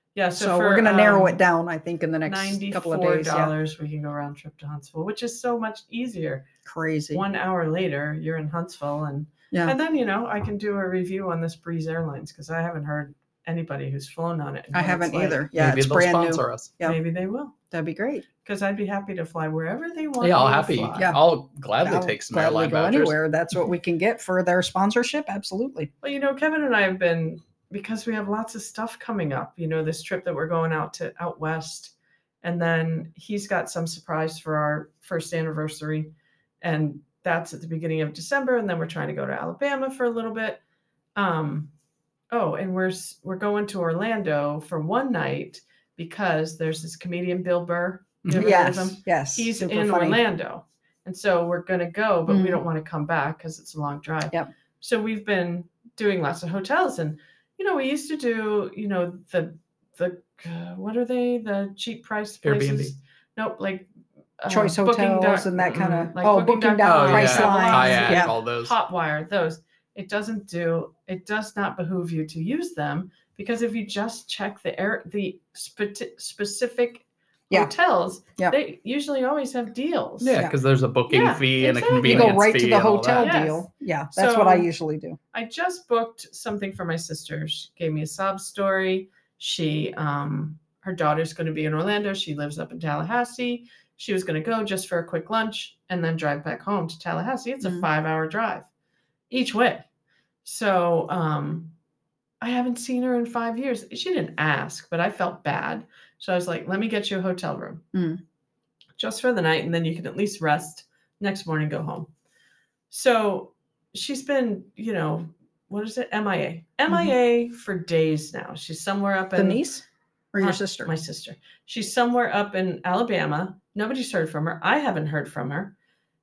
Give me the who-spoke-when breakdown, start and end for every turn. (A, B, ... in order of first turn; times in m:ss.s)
0:00.1-0:01.4 A
0:00.3-0:03.5 B
0:02.2-0:06.4 A
0:06.6-0:07.2 B
0:07.1-0:15.4 A
0:14.7-0:17.0 B
0:15.5-0:16.7 C
0:16.8-0:17.5 A
0:17.7-0:18.2 B
0:18.4-0:21.1 A
0:20.2-0:23.2 C
0:21.8-0:25.9 B
0:26.0-0:40.6 A
0:41.2-0:41.7 A
0:42.3-1:03.9 A
0:48.2-0:48.5 C
0:48.3-0:50.2 B
0:52.3-0:52.6 B
1:02.4-1:02.9 C
1:04.4-1:20.4 A
1:04.5-1:08.3 B
1:06.8-1:08.8 C
1:20.2-1:23.3 C
1:21.1-1:22.4 A
1:22.0-1:25.2 B
1:23.1-1:24.7 A
1:25.3-1:38.7 A
1:37.6-1:37.9 B
1:39.3-1:39.8 A
1:40.4-1:41.7 A
1:42.4-1:47.8 A
1:47.9-1:48.2 B
1:49.0-1:52.1 A
1:52.9-1:59.6 A
1:59.3-2:00.9 B
2:00.4-2:05.7 A